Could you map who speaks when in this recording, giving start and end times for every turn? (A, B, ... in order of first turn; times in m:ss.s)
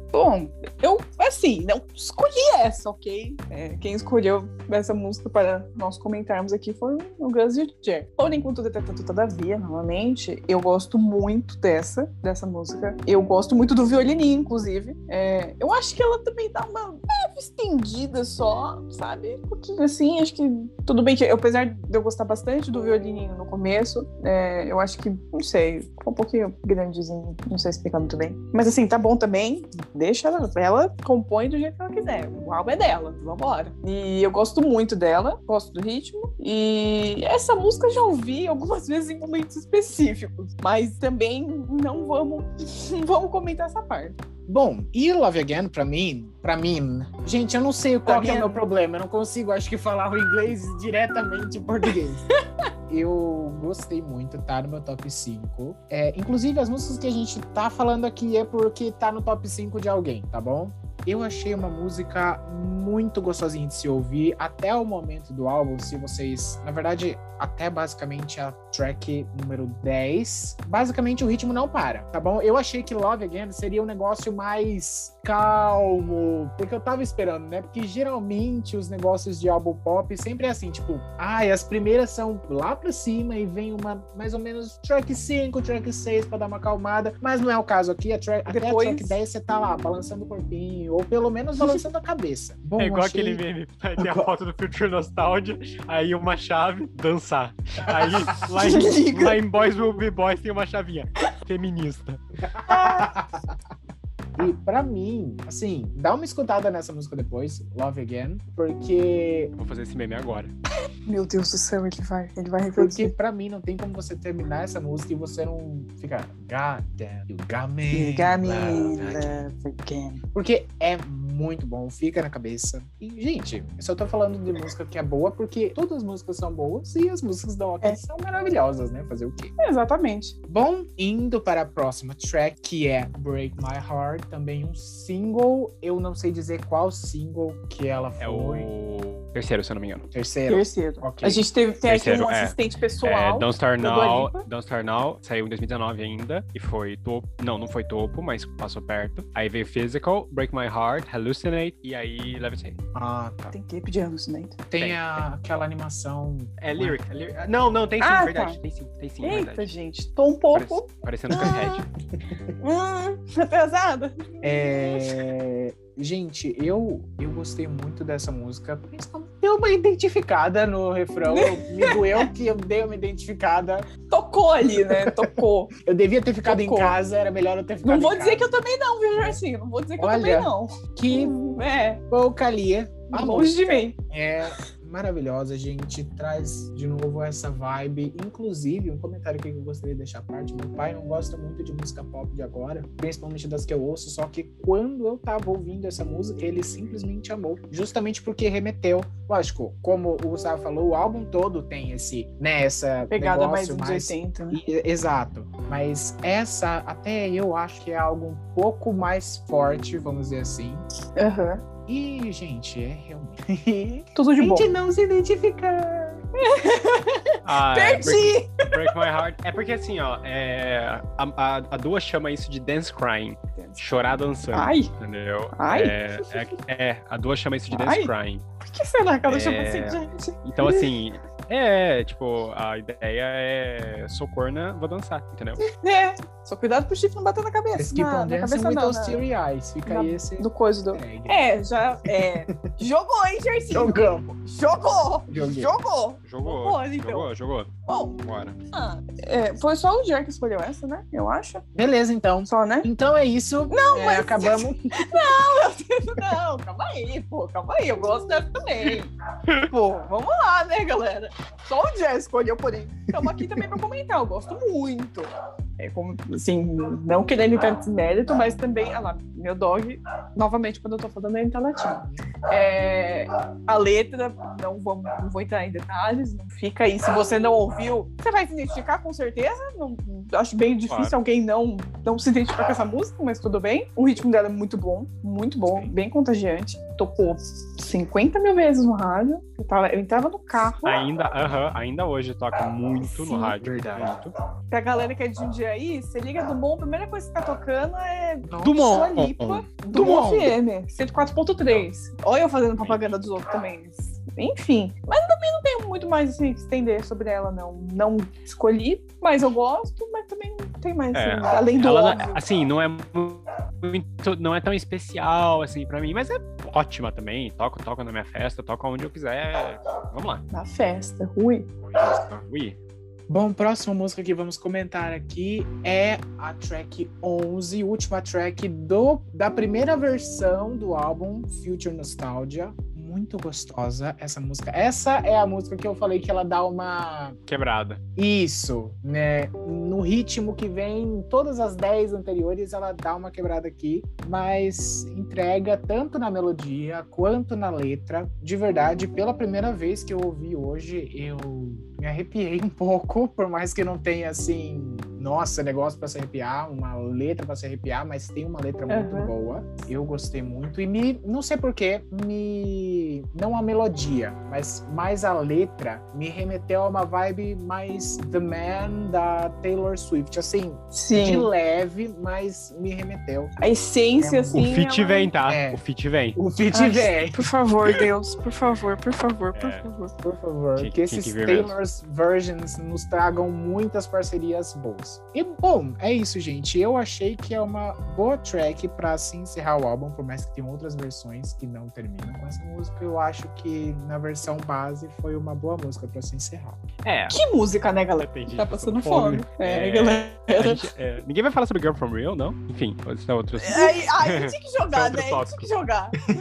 0:00.1-0:44.2 A
0:44.5-0:52.2 B
0:48.1-0:48.6 A
0:52.9-1:33.4 B
1:28.5-1:29.2 A
1:32.8-1:42.2 C
1:34.0-1:34.3 B
1:38.6-1:39.4 A
1:42.5-1:43.5 B
1:42.7-1:43.1 A
1:44.4-1:49.5 B
1:49.6-1:50.5 C
1:51.1-1:53.1 A
1:52.8-1:59.0 B
1:57.9-2:00.2 A
1:58.7-1:59.4 C
2:00.3-2:09.5 B
2:09.6-2:10.4 A
2:10.5-2:18.7 B
2:18.2-2:20.1 C
2:20.1-2:21.4 B
2:20.5-2:24.4 A
2:21.9-2:32.8 C
2:32.9-2:33.5 B
2:33.5-2:34.6 A
2:34.7-2:37.0 B
2:34.8-2:35.1 C
2:36.6-2:39.7 C
2:38.0-2:38.6 A
2:39.2-2:41.6 A
2:40.5-2:41.9 C
2:41.3-2:41.8 B
2:42.6-2:45.2 A
2:44.4-2:53.9 B
2:51.3-2:52.3 A
2:54.1-2:55.7 A
2:54.7-2:55.2 B
2:55.8-2:58.5 B
2:56.4-2:57.0 A
2:57.8-3:02.0 A
3:00.0-3:01.4 B
3:02.1-3:30.8 B
3:03.1-3:04.0 A
3:23.1-3:24.6 A
3:31.2-3:31.6 A
3:31.9-3:36.2 B
3:34.2-3:34.7 A
3:36.4-3:39.0 A
3:37.4-3:48.4 C
3:43.6-3:43.8 A
3:44.5-3:44.9 A
3:45.6-3:46.0 A
3:47.7-3:50.9 A
3:49.3-3:55.6 C
3:55.8-3:59.2 A
3:57.8-4:01.4 B
3:59.8-4:07.3 A
4:02.2-4:02.7 B
4:03.7-4:04.3 B
4:05.3-4:05.7 B
4:06.2-4:08.6 C
4:07.9-4:08.2 A
4:08.7-4:11.6 A
4:11.8-4:14.9 B
4:12.5-4:12.9 A
4:13.7-4:19.1 A
4:19.6-4:51.0 A
4:23.2-4:23.6 B
4:32.0-4:32.2 B
4:40.9-4:41.1 C
4:50.8-4:54.3 C
4:53.0-4:53.5 A
4:53.6-4:54.1 B
4:54.7-5:12.4 A
4:58.4-4:58.9 B
4:58.6-5:00.5 C
5:02.8-5:03.1 C
5:11.1-5:20.4 C
5:20.5-5:21.7 A
5:21.8-5:22.4 B
5:22.0-5:22.8 C
5:23.3-5:37.4 B
5:37.5-5:38.0 C
5:38.2-6:13.5 B
5:58.9-5:59.3 A
6:10.9-6:11.5 A
6:13.6-6:15.3 A
6:14.2-6:14.6 B
6:14.5-6:16.4 C
6:15.5-6:15.8 B
6:16.4-6:17.4 B
6:16.7-6:20.1 A
6:19.5-6:19.9 C
6:20.2-6:36.8 B
6:20.8-6:21.8 C
6:37.0-6:37.4 C
6:37.3-6:40.8 A
6:38.2-6:45.7 C
6:43.6-6:46.2 A